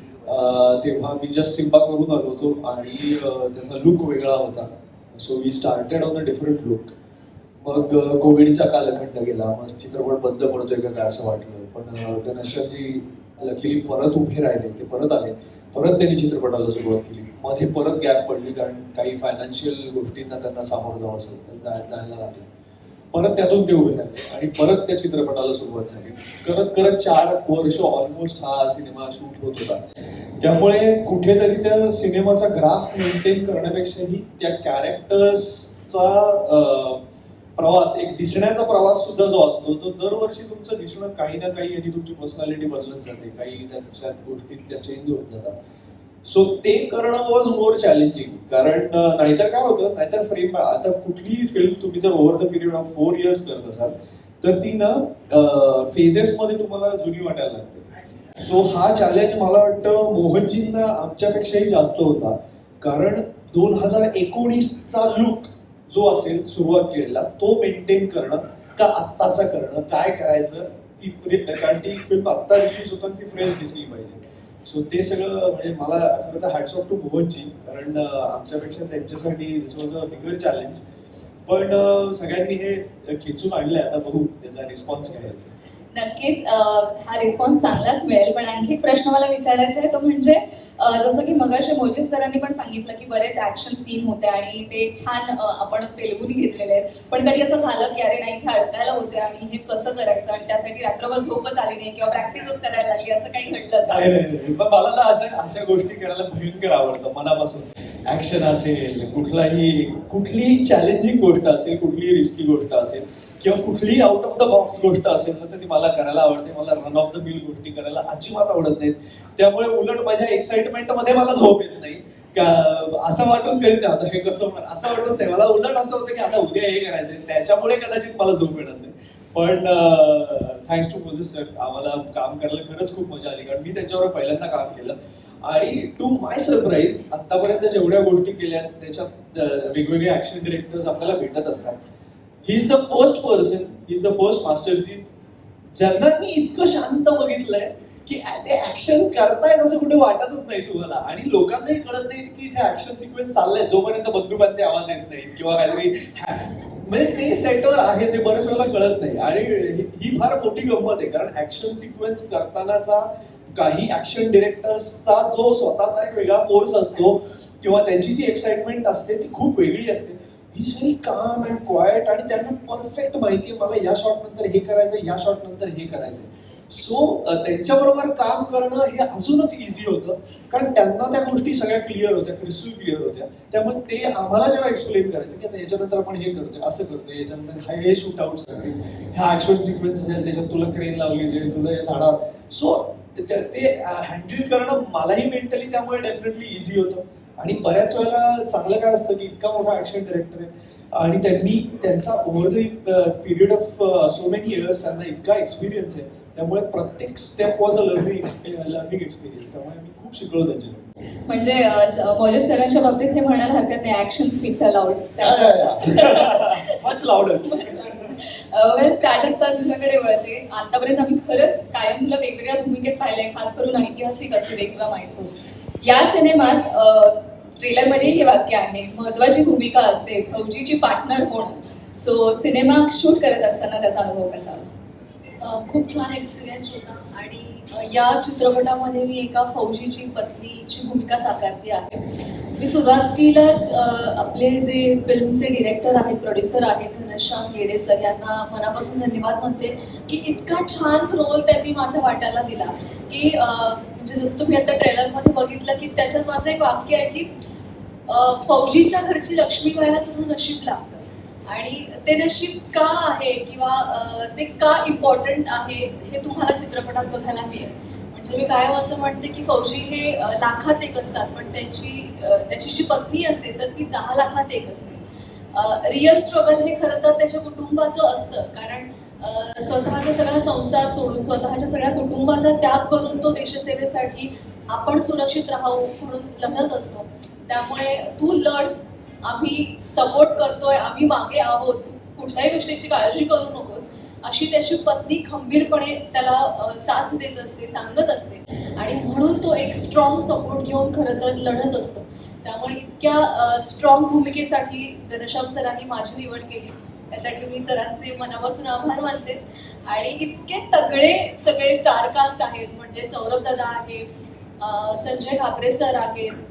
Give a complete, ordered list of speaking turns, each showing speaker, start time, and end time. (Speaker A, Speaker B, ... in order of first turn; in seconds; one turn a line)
Speaker A: 0.3-6.9
Speaker A: 7.6-22.5
Speaker A: 23.1-29.8
Speaker A: 30.4-37.0
Speaker A: 37.6-45.6
Speaker A: 46.2-57.9
Speaker A: 58.4-80.8
Speaker A: 81.5-85.5
Speaker B: 85.9-104.1
Speaker A: 103.9-141.8
Speaker A: 142.4-145.1
Speaker A: 145.8-210.9
Speaker B: 211.3-216.7
Speaker A: 215.2-218.0
Speaker B: 217.4-234.7
Speaker C: 235.4-242.0
Speaker C: 242.6-257.3
Speaker C: 258.1-267.6
Speaker C: 268.1-274.8
Speaker B: 273.1-274.0
Speaker B: 274.7-275.0
Speaker C: 275.6-288.5
Speaker B: 277.5-277.9
Speaker B: 279.9-280.2
Speaker B: 281.3-282.4
Speaker B: 282.9-283.3
Speaker B: 286.1-286.9
Speaker B: 288.2-288.7
Speaker C: 289.3-301.9
Speaker B: 299.8-300.3
Speaker B: 301.3-301.9
Speaker C: 302.5-308.6
Speaker B: 305.1-306.5
Speaker B: 307.8-309.4
Speaker B: 309.9-310.7
Speaker C: 310.7-314.0
Speaker B: 311.3-313.1
Speaker B: 313.6-313.9
Speaker C: 314.8-316.3